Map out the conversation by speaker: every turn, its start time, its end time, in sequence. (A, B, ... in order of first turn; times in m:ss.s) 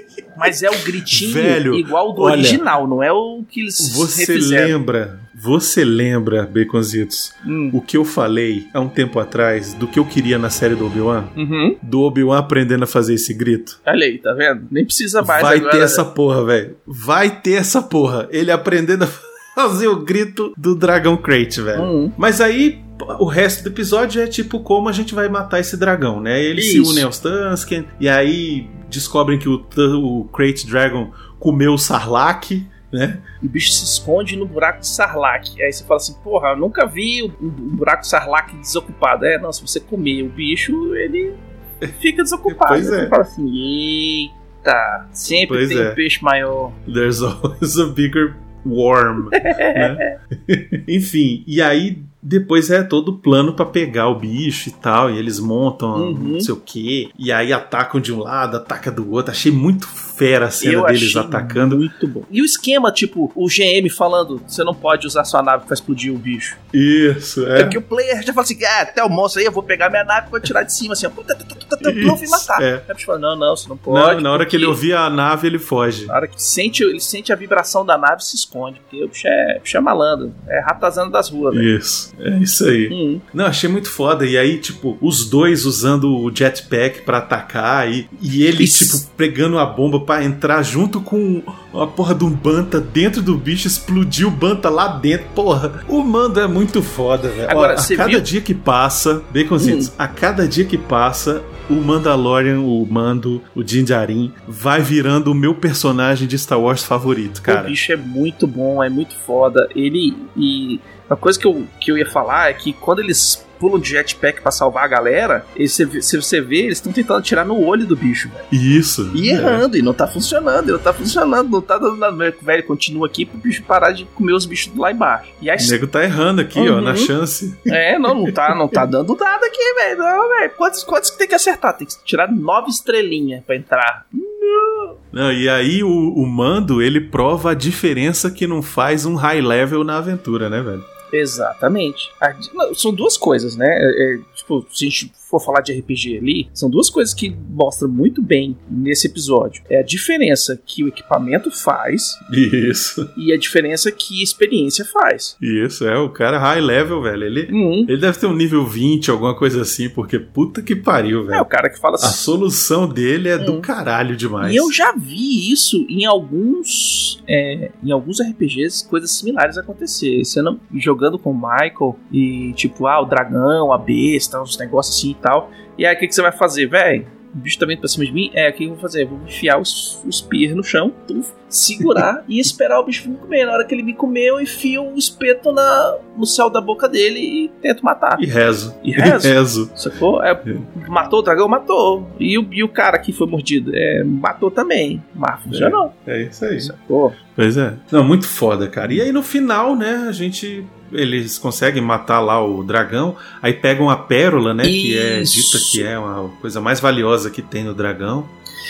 0:00.4-0:04.7 A
0:00.5-0:02.6 B
0:03.8-0:13.8 B
0:07.4-0:07.8 A
0:11.4-0:11.8 A
0:13.8-0:16.0 A
0:15.2-0:33.2 B
0:21.7-0:22.1 A
0:26.6-0:27.0 A
0:33.4-0:41.4 A
0:41.9-0:46.8 A
0:42.4-0:43.2 B
0:45.4-0:46.0 B
0:46.8-1:01.8 B
0:49.3-0:50.1 A
0:55.9-0:56.5 A
1:00.6-1:06.6 A
1:06.7-1:07.8 B
1:07.5-1:14.8 A
1:11.8-1:12.8 B
1:13.9-1:16.1 B
1:16.1-1:21.7 A
1:21.5-1:47.7 B
1:22.9-1:23.2 A
1:28.6-1:29.0 A
1:37.5-1:38.3 A
1:39.6-1:39.9 A
1:47.5-1:58.5 A
1:58.5-1:59.6 B
1:59.1-2:05.8 A
2:05.6-2:08.8 B
2:06.5-2:07.1 A
2:07.7-2:15.0 A
2:15.1-2:20.9 B
2:21.1-2:32.2 A
2:32.3-2:33.1 B
2:33.2-2:35.3 A
2:35.4-2:41.5 B
2:37.5-2:37.9 A
2:41.3-2:42.3 A
2:42.0-2:44.7 B
2:43.4-2:43.7 A
2:44.4-3:08.2 A
3:08.2-3:09.7 B
3:08.8-3:15.9 A
3:15.5-3:16.7 B
3:16.6-3:17.2 A
3:17.4-3:28.3 B
3:24.6-3:25.9 A